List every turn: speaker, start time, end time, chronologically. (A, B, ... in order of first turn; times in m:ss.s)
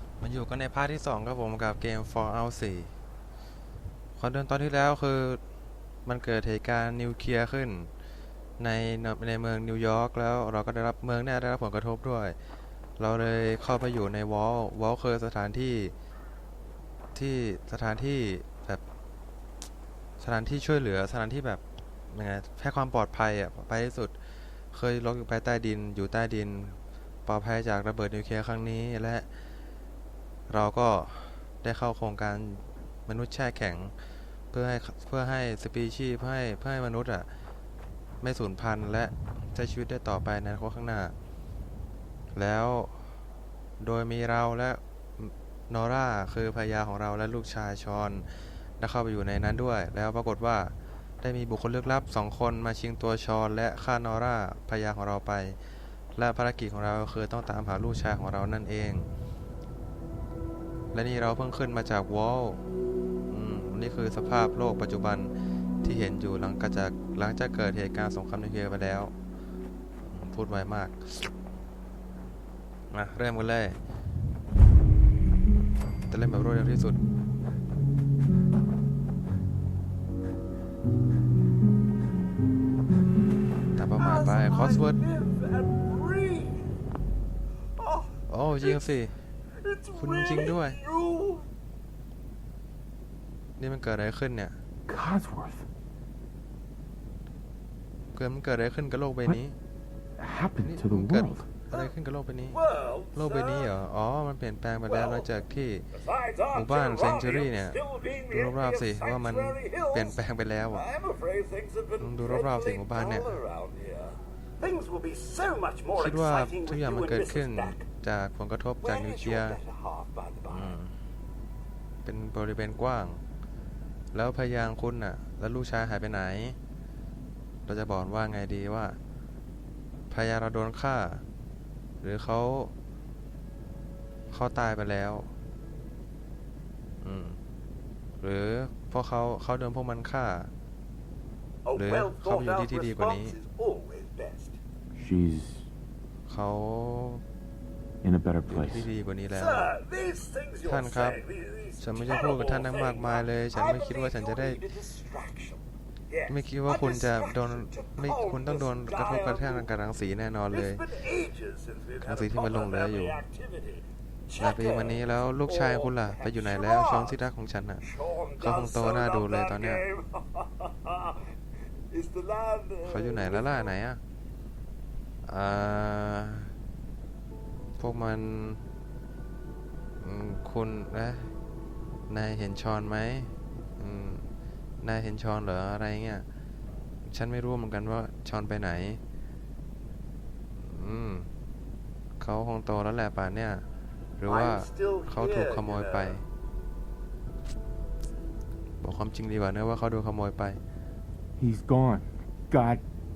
0:00.2-0:02.9 A
0:04.1-0:05.4 A
0:06.0-0:07.9 A
0:08.6-0:12.4 A
0:13.0-0:15.9 A
0:17.1-0:18.8 A
0:20.2-0:24.2 A
0:24.7-0:29.3 A
0:30.5-0:33.9 A
0:34.5-0:37.3 A
0:38.2-0:41.1 A
0:42.3-0:43.0 A
0:43.8-0:55.6 A
0:56.1-0:59.1 A
1:00.9-1:02.6 A
1:03.3-1:09.1 A
1:10.0-1:11.3 A
1:12.9-1:13.8 A
1:16.1-1:17.0 A
1:23.7-1:25.0 A
1:24.0-1:26.7 B
1:27.8-1:28.8 B
1:28.3-1:29.2 A
1:29.6-1:31.4 B
1:29.9-1:30.8 A
1:33.6-1:34.6 A
1:34.9-1:35.6 C
1:38.1-1:39.6 A
1:40.2-1:41.5 C
1:40.6-1:42.6 A
1:42.4-1:43.7 B
1:43.1-1:45.9 A
1:44.8-1:45.4 B
1:45.9-1:50.2 B
1:46.5-1:50.8 A
1:50.7-1:57.8 B
1:52.0-1:53.3 A
1:55.9-1:59.6 A
1:58.8-2:00.8 B
2:00.5-2:00.9 A
2:02.0-2:03.2 A
2:04.1-2:06.6 A
2:07.6-2:09.0 A
2:10.1-2:11.2 A
2:12.0-2:12.7 A
2:14.3-2:15.3 A
2:17.0-2:17.4 A
2:18.2-2:20.5 A
2:21.6-2:24.6 B
2:21.8-2:23.4 A
2:24.9-2:25.7 C
2:26.2-2:27.2 A
2:28.0-2:28.9 C
2:28.5-2:29.7 A
2:29.3-2:39.7 B
2:30.6-2:31.2 A
2:31.8-2:34.6 A
2:36.3-2:40.8 A
2:40.5-2:47.2 B
2:42.0-2:43.2 A
2:44.4-2:47.8 A
2:47.8-2:51.2 B
2:48.4-2:49.8 A
2:51.9-2:53.8 B
2:52.8-2:54.0 A
2:55.2-2:56.5 A
2:57.8-2:58.6 A
3:00.0-3:01.3 A
3:02.1-3:04.3 A
3:04.8-3:06.2 A
3:07.0-3:09.0 A
3:10.6-3:11.3 A
3:12.2-3:13.6 A
3:14.2-3:16.2 A
3:14.2-3:16.2 B
3:18.8-3:20.6 A
3:21.4-3:22.8 C